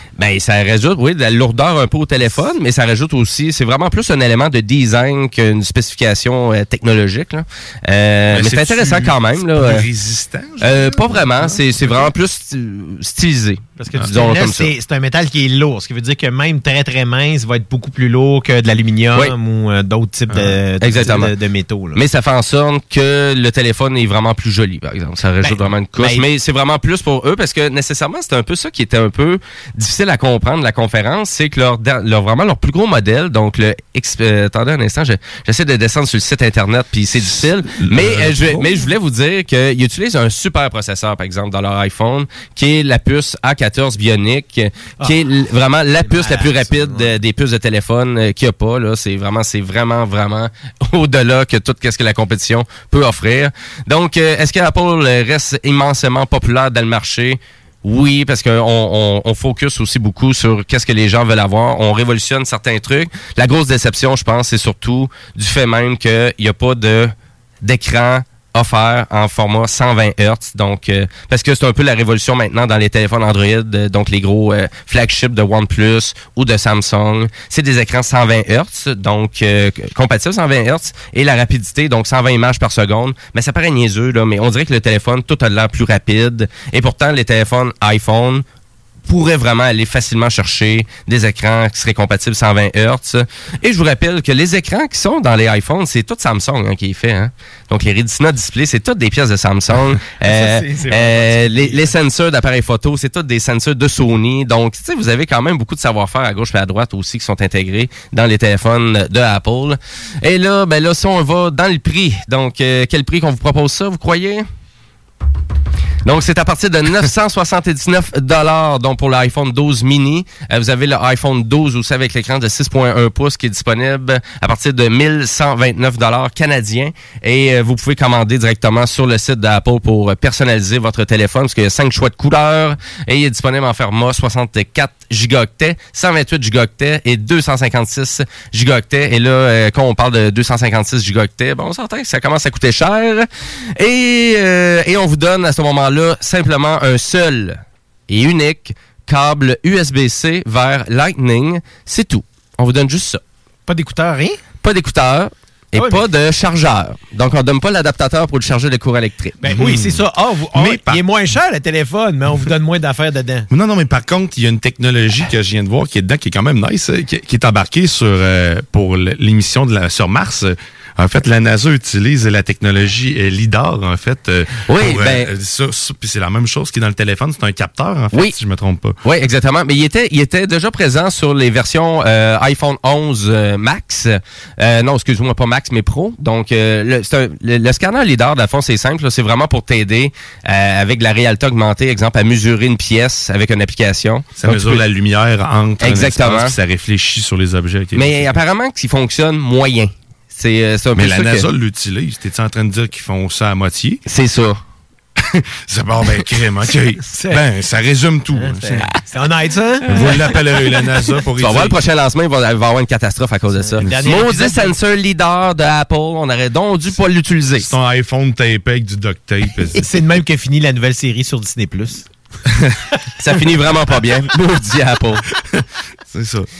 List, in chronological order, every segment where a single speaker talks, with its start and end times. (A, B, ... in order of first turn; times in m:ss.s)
0:00.2-0:09.9 A
0:08.3-0:12.1 B
0:10.6-0:14.7 A
0:13.8-0:22.0 C
0:20.3-0:20.6 B
0:20.8-0:21.3 A
0:21.9-1:28.4 A
0:25.4-0:26.2 C
0:37.2-0:38.7 B
0:46.0-0:47.1 C
1:29.0-1:54.4 A
1:40.2-1:41.9 C
1:56.0-2:23.2 A
2:23.8-2:33.2 A
2:33.7-2:34.4 C
2:34.6-2:39.4 A
2:35.8-2:36.0 C
2:39.4-2:43.5 C
2:39.5-2:40.0 B
2:40.5-2:41.0 B
2:43.5-2:59.0 B
2:54.7-2:55.3 A
2:59.0-3:14.8 A
3:14.4-3:18.4 B
3:15.8-3:16.5 A
3:17.9-3:21.5 A
3:20.9-3:24.0 B
3:24.1-3:24.6 A
3:25.2-3:28.9 B
3:28.4-3:29.9 C
3:29.9-3:31.8 B
3:31.4-3:37.7 A
3:33.5-3:34.7 C
3:37.6-3:39.8 B
3:39.8-3:42.0 C
3:43.2-3:45.2 A
3:45.5-3:46.5 B